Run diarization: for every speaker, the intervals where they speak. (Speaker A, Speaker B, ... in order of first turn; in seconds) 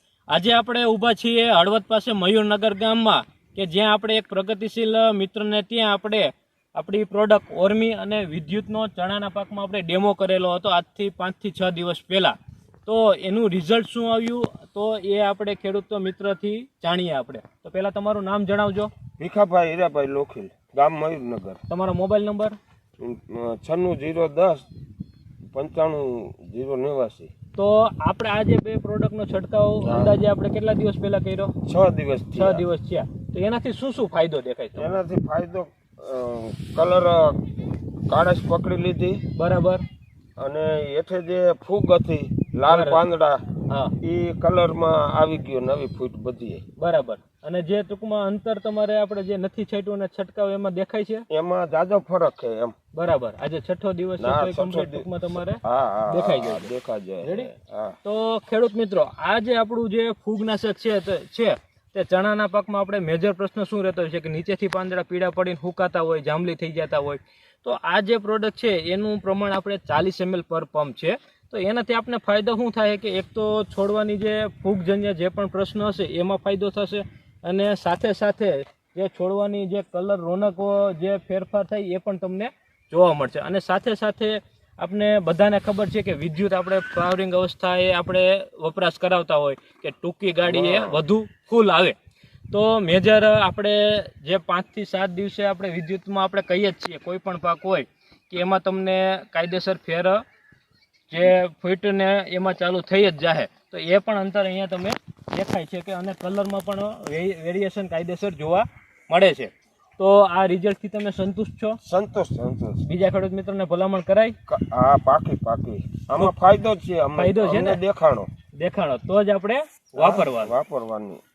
Speaker A: 0.3-18.9, 21.7-22.6, 27.6-31.5, 32.4-35.0, 39.3-39.8, 42.7-43.0, 43.7-43.9, 46.8-51.2, 52.9-57.5, 58.0-92.0, 92.5-100.2, 101.1-111.8, 112.8-114.3, 117.2-117.8, 118.6-120.5
Speaker B: 19.2-21.6, 23.0-24.6, 25.5-27.3, 29.8-30.1, 31.6-32.6, 34.8-37.4, 38.1-39.2, 40.4-43.5, 44.0-46.6, 51.3-52.8, 54.2-58.0, 90.4-91.0, 111.8-112.8, 114.5-118.3, 120.0-121.2